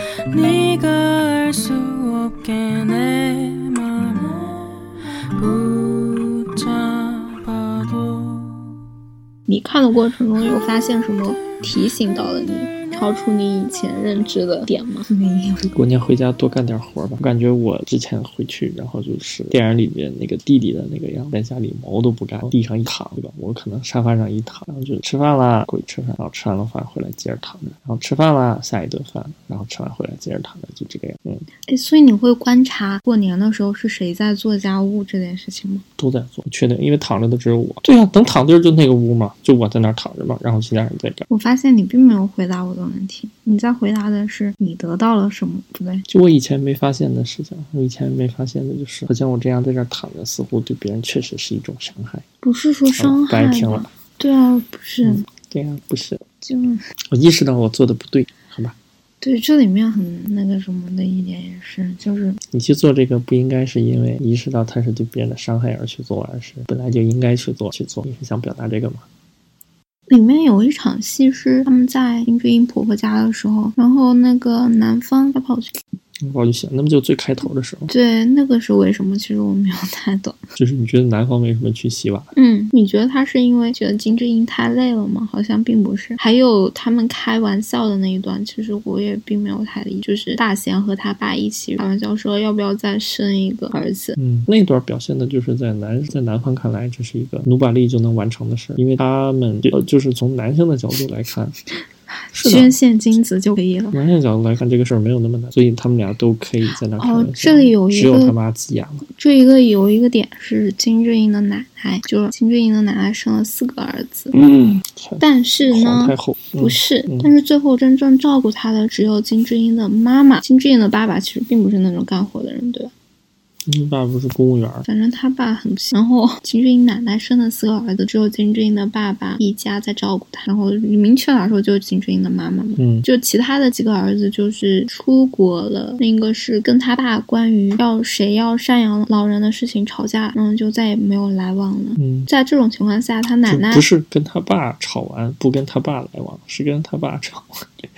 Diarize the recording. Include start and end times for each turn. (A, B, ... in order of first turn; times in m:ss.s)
0:00.3-0:08.8 A
0:09.5-0:15.7 B
0:15.7-0:31.5 C
0:31.7-0:35.8 B
0:36.0-0:41.2 C
0:41.3-0:46.0 B
0:46.1-0:52.2 C
0:52.4-0:55.2 B
0:53.0-0:53.9 C
0:55.0-0:56.2 C
0:56.4-0:56.8 B
0:57.1-0:58.7 C
0:59.2-1:02.4 B
1:02.5-1:09.0 C
1:10.1-1:15.8 B
1:16.2-1:17.9 C
1:17.9-1:20.4 B
1:20.6-1:22.3 C
1:22.3-1:34.2 B
1:34.2-1:41.6 C
1:42.3-1:44.0 B
1:42.3-1:42.8 C
1:43.9-1:49.0 C
1:47.0-1:48.3 B
1:49.1-1:54.3 B
1:54.3-1:57.3 C
1:55.2-2:02.9 B
2:03.6-2:04.8 C
2:04.8-2:23.8 B
2:12.8-2:13.0 C
2:22.0-2:22.3 C
2:23.5-2:27.6 C